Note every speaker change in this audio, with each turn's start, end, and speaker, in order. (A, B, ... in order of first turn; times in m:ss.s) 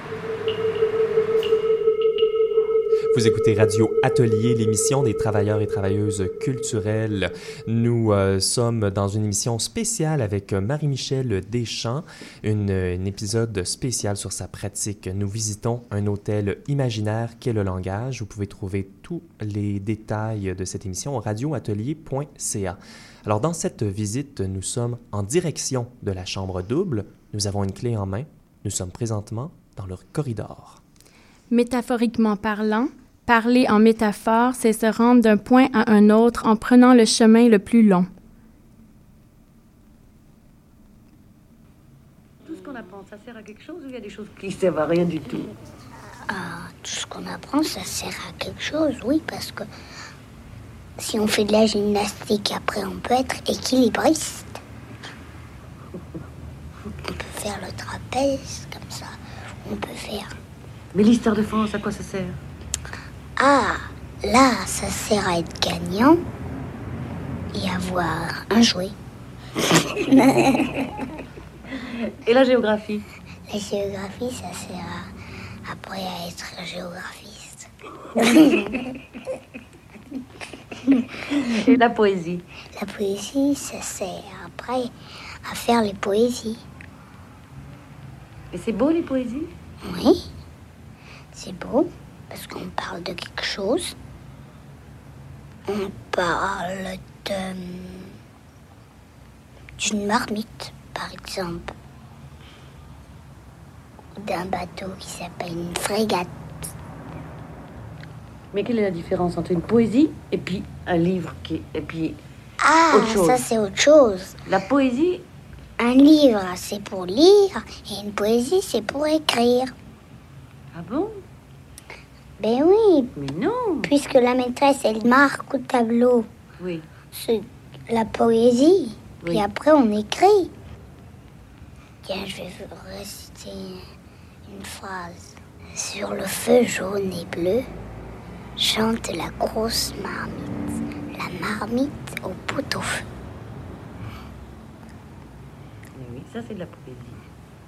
0:03.1-0:30.8 A
0:31.5-0:38.1 B
0:42.4-0:45.5 C
0:46.3-0:49.7 D
0:51.0-0:54.6 D
0:57.1-1:00.3 D
1:00.9-1:02.4 C
1:03.4-1:06.2 D
1:07.5-1:08.9 D
1:10.1-1:10.7 D
1:12.2-1:13.0 C
1:13.5-1:15.1 D
1:15.6-1:18.8 D
1:21.5-1:22.4 C
1:22.7-1:24.9 D
1:25.4-1:26.6 D
1:28.5-1:29.5 C
1:29.8-1:30.2 D
1:31.3-1:34.0 D
1:35.7-1:38.1 D
1:39.8-1:41.7 D
1:44.2-1:46.3 D
1:48.5-1:52.2 C
1:52.6-1:54.4 D
1:52.9-1:53.4 C
1:54.4-1:55.2 C
1:55.8-1:59.7 D
2:00.7-2:01.2 C
2:02.4-2:03.1 D
2:03.2-2:03.9 C
2:03.8-2:06.3 D
2:06.6-2:06.8 C
2:07.1-2:10.5 D
2:12.0-2:13.8 D
2:14.5-2:17.7 D
2:18.6-2:20.5 D
2:21.1-2:23.0 D
2:25.9-2:27.2 C